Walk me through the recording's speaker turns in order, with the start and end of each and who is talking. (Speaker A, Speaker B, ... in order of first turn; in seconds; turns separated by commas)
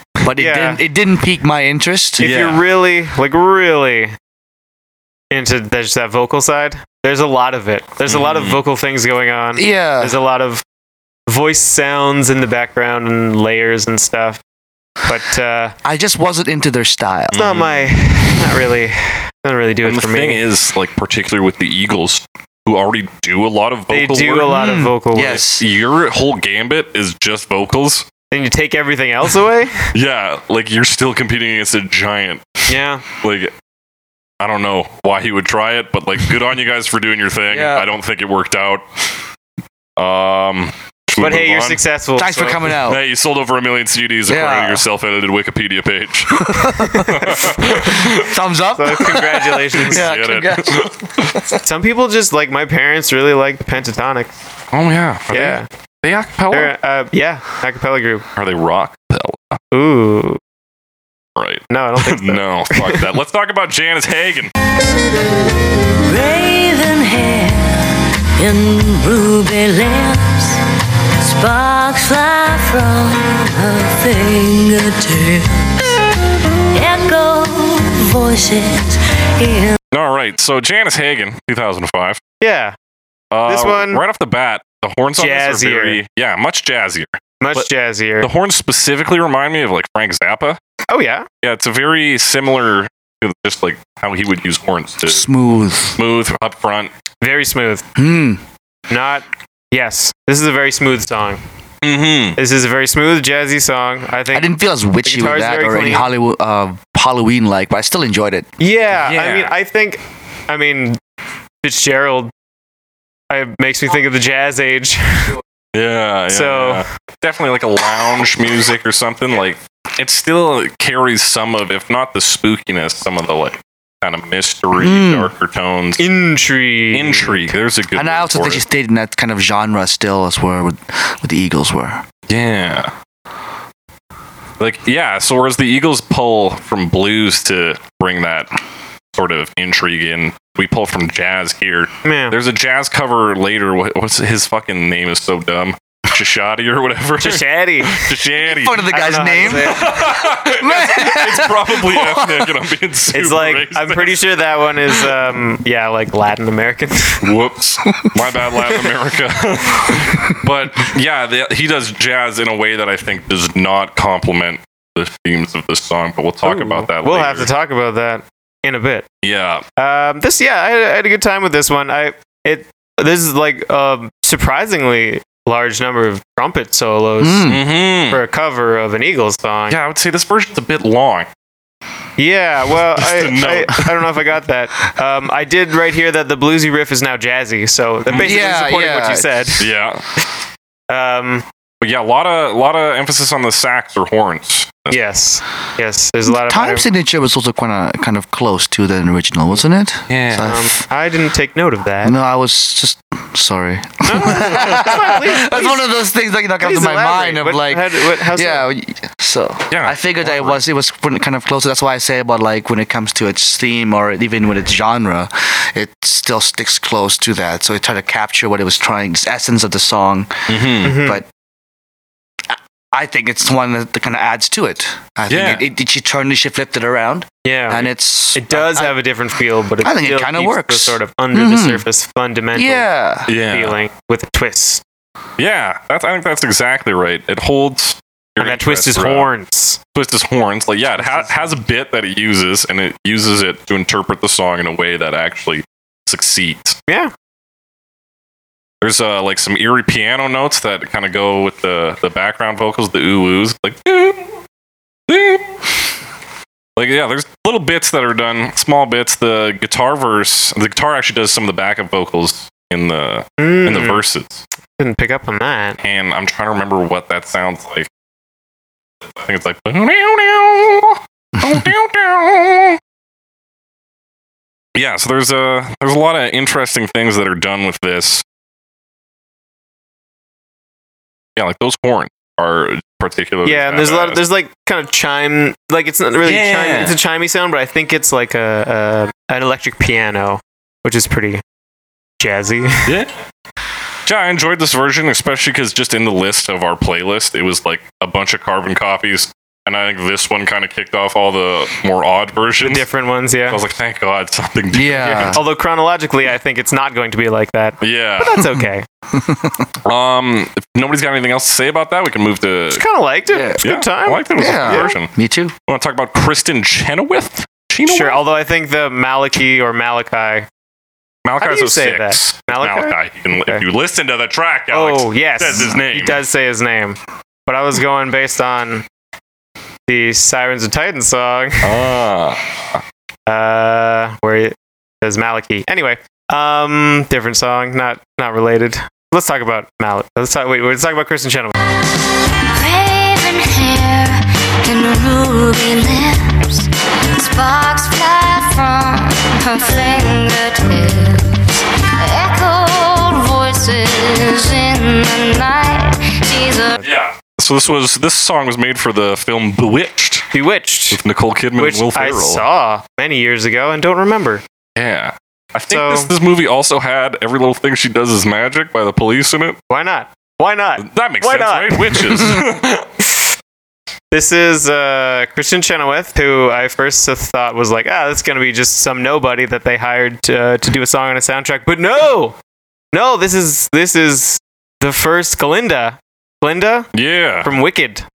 Speaker A: 0.2-2.3, Speaker B: 0.3-0.8, Speaker C: 2.2-2.6, Speaker B: 2.2-4.2, Speaker B: 5.3-10.6, Speaker C: 8.1-8.6, Speaker A: 9.6-10.2, Speaker B: 11.3-14.4, Speaker B: 15.0-15.8, Speaker A: 15.8-17.4, Speaker C: 17.3-17.9, Speaker B: 17.3-20.4, Speaker C: 19.8-24.5, Speaker B: 23.9-25.4, Speaker A: 24.5-25.7, Speaker C: 25.2-28.1, Speaker B: 28.3-29.9, Speaker C: 29.9-33.5, Speaker B: 32.7-33.0, Speaker C: 34.4-39.1, Speaker A: 37.5-37.9, Speaker C: 40.0-41.8, Speaker B: 41.2-42.6, Speaker A: 42.2-43.0, Speaker C: 42.9-48.3, Speaker A: 44.3-44.8, Speaker A: 46.3-51.6, Speaker B: 47.3-47.9, Speaker B: 48.7-50.1, Speaker C: 49.9-51.4, Speaker B: 51.6-54.3, Speaker C: 54.7-56.7, Speaker B: 55.3-55.7, Speaker B: 56.5-58.3, Speaker C: 58.4-59.6, Speaker B: 59.7-60.4, Speaker C: 61.4-64.5, Speaker B: 61.7-63.1, Speaker D: 66.1-70.6, Speaker D: 71.2-76.0, Speaker D: 76.7-79.8, Speaker C: 79.9-82.2, Speaker B: 82.4-82.8, Speaker C: 83.3-87.7, Speaker B: 83.5-84.0, Speaker B: 85.2-86.0, Speaker B: 87.4-88.3, Speaker C: 88.2-90.6, Speaker B: 90.9-91.3, Speaker C: 91.4-95.3, Speaker A: 95.0-96.0, Speaker C: 96.0-96.9, Speaker B: 97.2-97.8, Speaker A: 98.0-98.4, Speaker B: 98.9-101.4, Speaker C: 101.8-102.4, Speaker B: 102.4-106.1, Speaker A: 104.3-108.5, Speaker B: 108.6-111.0, Speaker C: 108.9-109.5, Speaker B: 111.6-112.3, Speaker B: 113.3-115.4, Speaker C: 115.7-126.0, Speaker B: 116.3-116.9, Speaker A: 124.8-125.3, Speaker B: 126.0-127.5, Speaker C: 126.9-128.6, Speaker A: 128.0-132.0, Speaker C: 132.3-132.9, Speaker C: 134.6-138.5, Speaker C: 139.1-148.9, Speaker B: 142.0-142.4, Speaker B: 147.2-148.2, Speaker A: 148.4-152.5, Speaker B: 148.9-150.1, Speaker C: 149.5-154.2, Speaker B: 153.1-157.2, Speaker C: 157.2-167.5, Speaker B: 166.4-169.1, Speaker C: 169.2-169.6, Speaker B: 169.8-179.8, Speaker A: 177.2-177.6, Speaker C: 177.5-178.2, Speaker C: 179.7-181.3, Speaker B: 182.2-189.7, Speaker C: 182.8-183.9, Speaker C: 188.1-188.4, Speaker A: 188.1-189.5, Speaker C: 189.6-190.0, Speaker B: 190.9-191.4, Speaker C: 191.8-195.0, Speaker B: 194.9-196.8, Speaker A: 196.3-200.7, Speaker C: 200.1-200.5, Speaker B: 200.4-202.2, Speaker A: 202.0-221.3, Speaker B: 204.1-205.9, Speaker B: 206.6-208.7, Speaker C: 209.7-210.6, Speaker C: 220.5-220.9, Speaker B: 220.8-221.2, Speaker A: 222.5-229.0, Speaker C: 225.3-225.6, Speaker B: 227.4-234.8, Speaker A: 229.8-231.8, Speaker A: 232.5-233.3, Speaker C: 233.3-233.8, Speaker C: 235.4-239.3, Speaker B: 238.4-239.8, Speaker C: 239.9-246.8, Speaker B: 241.0-241.3, Speaker C: 248.8-254.4, Speaker C: 255.1-255.6, Speaker C: 256.8-264.4, Speaker B: 263.4-264.0, Speaker B: 264.8-265.8, Speaker C: 265.8-267.9, Speaker C: 269.1-272.8, Speaker C: 274.8-278.2, Speaker C: 281.4-284.2, Speaker B: 283.4-291.4, Speaker C: 286.2-287.0, Speaker B: 292.2-292.9, Speaker C: 294.1-302.9, Speaker B: 302.6-303.6, Speaker C: 303.5-305.4, Speaker A: 304.7-305.4, Speaker B: 305.2-308.9, Speaker C: 307.8-308.4, Speaker A: 309.1-309.7, Speaker C: 309.9-312.8, Speaker B: 312.8-314.9, Speaker A: 313.3-313.6, Speaker C: 313.6-315.1, Speaker A: 314.4-315.5, Speaker C: 315.7-318.2, Speaker B: 317.9-320.5, Speaker C: 321.2-326.2, Speaker B: 321.4-323.6, Speaker B: 324.7-328.9, Speaker B: 329.9-331.8, Speaker C: 331.6-332.8, Speaker B: 333.3-341.6, Speaker E: 342.5-356.8, Speaker C: 356.8-360.3, Speaker B: 360.3-361.0, Speaker C: 360.9-362.4, Speaker B: 361.6-364.4, Speaker C: 364.8-369.6, Speaker B: 365.7-366.1, Speaker B: 369.7-372.4, Speaker C: 370.8-372.9, Speaker B: 374.1-382.4, Speaker B: 382.9-386.9, Speaker C: 386.9-387.5, Speaker B: 387.4-388.1